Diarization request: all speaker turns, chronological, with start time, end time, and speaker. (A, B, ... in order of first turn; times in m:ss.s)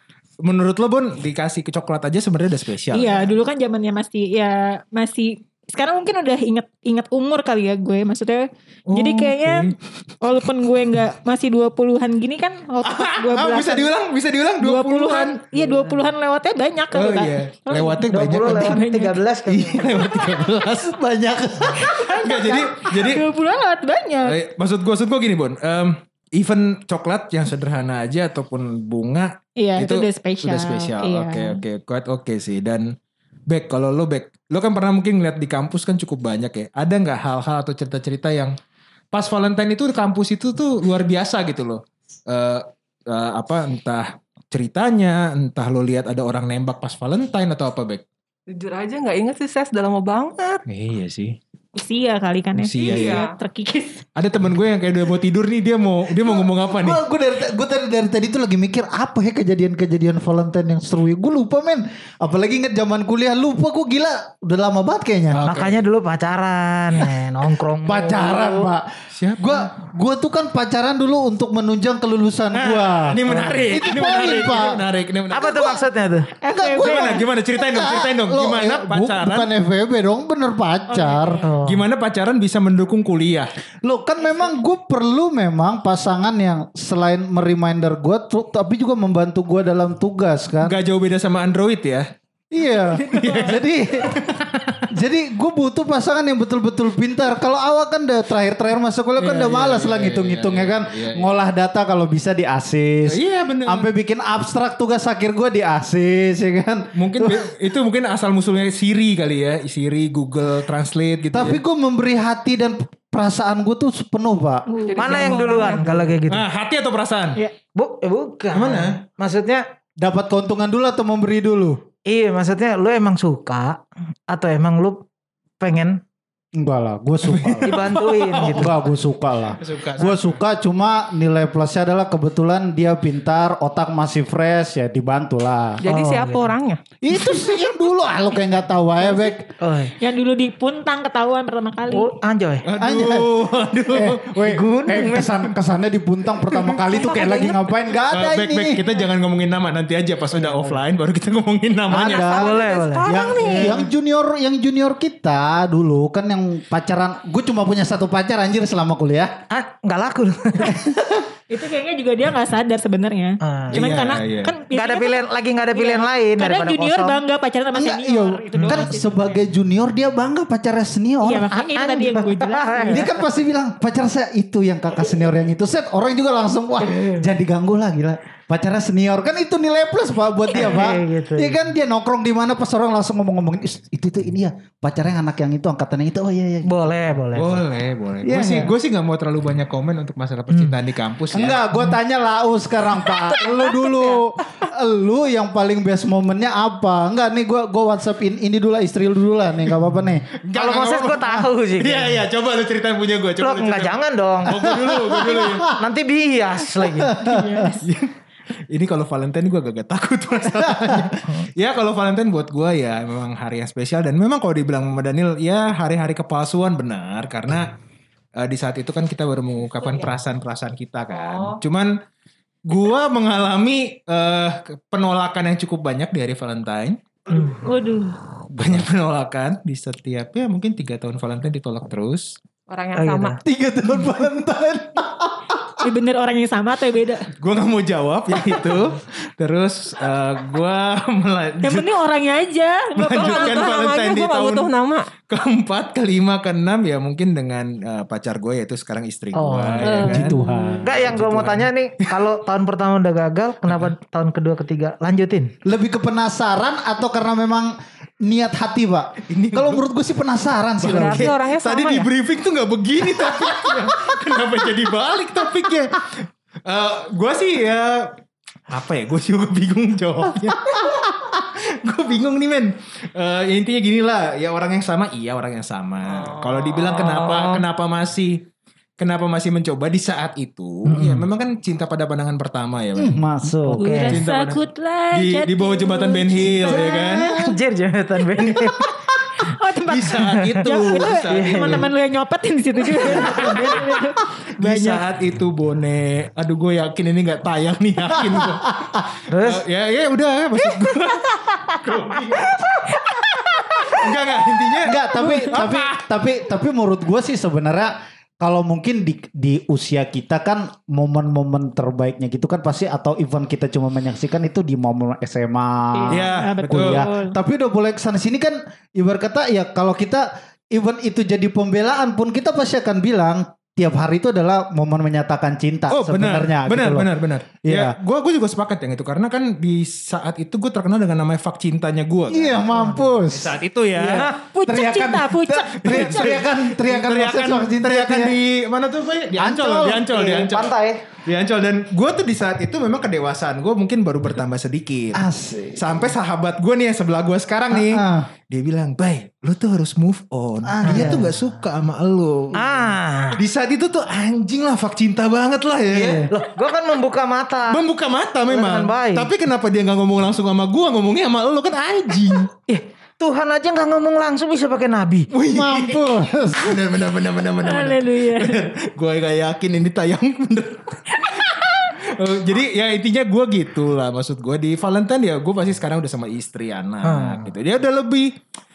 0:00.4-0:03.3 A
0:02.9-0:13.9 B
0:08.9-0:09.8 A
0:12.8-0:15.4 A
0:14.6-0:19.2 B
0:16.9-0:18.8 A
0:18.1-0:20.2 C
0:19.4-0:21.0 A
0:20.9-0:21.9 D
0:21.7-0:23.2 A
0:21.8-0:24.4 B
0:24.2-0:33.0 A
0:29.6-0:31.6 B
0:33.5-0:38.6 A
0:39.1-0:48.0 A
0:48.5-0:50.6 E
0:50.6-0:51.4 A
0:51.7-0:54.0 B
0:52.5-0:53.2 A
0:52.8-0:53.3 E
0:54.2-0:57.0 A
0:56.2-1:05.4 D
1:05.3-1:05.8 A
1:05.4-1:08.7 C
1:07.8-1:08.9 D
1:09.1-1:09.7 A
1:09.4-1:14.8 D
1:12.5-1:15.8 A
1:15.3-1:16.3 C
1:16.4-1:17.2 B
1:16.5-1:21.4 D
1:16.8-1:19.5 A
1:20.9-1:21.5 B
1:21.4-1:21.8 C
1:21.6-1:23.5 A
1:23.8-1:30.8 D
1:30.6-1:32.1 A
1:32.5-1:34.2 D
1:33.0-1:33.6 B
1:33.1-1:34.9 A
1:34.9-1:47.5 D
1:39.2-1:41.4 A
1:43.0-1:43.9 A
1:46.9-1:51.6 A
1:51.3-1:54.6 D
1:54.7-1:55.8 B
1:54.8-1:55.8 E
1:55.0-1:56.4 C
1:56.3-1:57.4 A
1:57.7-1:59.6 C
1:58.5-1:59.0 A
2:00.0-2:01.8 D
2:02.1-2:05.0 C
2:05.6-2:06.0 C
2:06.6-2:07.9 D
2:07.2-2:08.8 A
2:07.6-2:08.8 C
2:08.4-2:15.8 D
2:09.6-2:10.4 A
2:15.8-2:16.8 E
2:15.8-2:16.5 C
2:17.0-2:19.5 D
2:19.6-2:20.0 C
2:20.0-2:22.1 B
2:21.9-2:22.6 C
2:22.6-2:24.6 A
2:22.8-2:23.4 D
2:23.9-2:28.8 D
2:24.4-2:25.3 C
2:26.5-2:26.8 A
2:28.1-2:32.3 A
2:31.9-2:39.4 D
2:31.9-2:33.9 E
2:32.2-2:33.8 C
2:39.5-2:40.9 C
2:41.5-2:49.4 B
2:43.4-2:44.0 C
2:43.7-2:44.5 A
2:44.7-2:47.2 C
2:47.7-2:51.5 D
2:48.5-2:48.8 A
2:51.2-2:53.0 B
2:51.5-2:53.1 C
2:52.9-3:06.7 D
2:56.8-2:57.2 C
3:00.5-3:01.6 C
3:06.6-3:07.6 C
3:07.3-3:11.6 A
3:08.2-3:08.7 D
3:10.5-3:10.7 C
3:11.3-3:20.2 D
3:13.5-3:14.0 B
3:20.4-3:25.8 A
3:20.5-3:22.2 C
3:23.4-3:24.8 C
3:24.8-3:25.7 D
3:25.7-3:27.2 C
3:27.0-3:27.7 D
3:27.2-3:27.9 B
3:27.8-3:28.1 A
3:28.7-3:37.7 A
3:38.4-3:42.0 A
3:41.1-3:41.6 E
3:42.6-3:47.0 A
3:47.3-3:48.2 B
3:48.5-3:52.4 A
3:52.7-3:53.4 E
3:52.9-3:53.4 C
3:53.5-3:55.4 A
3:53.8-3:54.3 D
3:55.8-3:57.3 B
3:57.4-4:01.9 A
4:01.6-4:03.7 B
4:03.0-4:04.7 A
4:03.2-4:05.1 E
4:05.3-4:12.2 A
4:09.3-4:10.1 C
4:09.8-4:10.8 B
4:09.9-4:11.0 D
4:10.8-4:15.5 C
4:15.6-4:21.3 D
4:19.3-4:19.8 A
4:20.8-4:28.2 A
4:20.8-4:22.1 E
4:28.7-4:38.4 A
4:36.1-4:37.6 E
4:39.0-4:43.2 A
4:40.9-4:41.2 D
4:43.0-4:43.8 D
4:43.7-4:44.2 C
4:43.8-4:47.3 B
4:44.1-4:47.4 A
4:46.7-4:48.9 C
4:48.4-4:49.0 A
4:49.4-4:55.1 B
4:49.8-4:51.9 A
4:50.1-4:50.6 C
4:51.3-4:51.8 C
4:53.0-4:53.9 A
4:54.6-5:02.8 A
4:59.3-4:59.6 C
5:03.1-5:03.9 B
5:03.7-5:05.9 A
5:04.8-5:27.1 D
5:05.2-5:05.7 B
5:15.9-5:17.4 B
5:16.1-5:17.0 A
5:25.9-5:32.7 A
5:27.6-5:28.0 D
5:32.3-5:38.4 D
5:33.3-5:34.3 A
5:34.2-5:36.4 B
5:35.8-5:45.2 A
5:39.4-5:40.1 D
5:40.1-5:41.0 C
5:45.1-5:46.1 D
5:45.8-5:56.3 A
5:47.7-5:48.3 D
5:50.6-5:51.4 D
5:50.8-5:51.2 C
5:52.5-5:53.4 C
5:55.9-5:56.3 D
5:56.3-5:57.8 C
5:57.7-6:02.5 A
5:58.5-5:59.3 C
6:02.7-6:05.3 C
6:05.3-6:18.3 A
6:05.5-6:06.8 D
6:07.6-6:08.7 B
6:11.2-6:11.7 B
6:17.0-6:17.5 C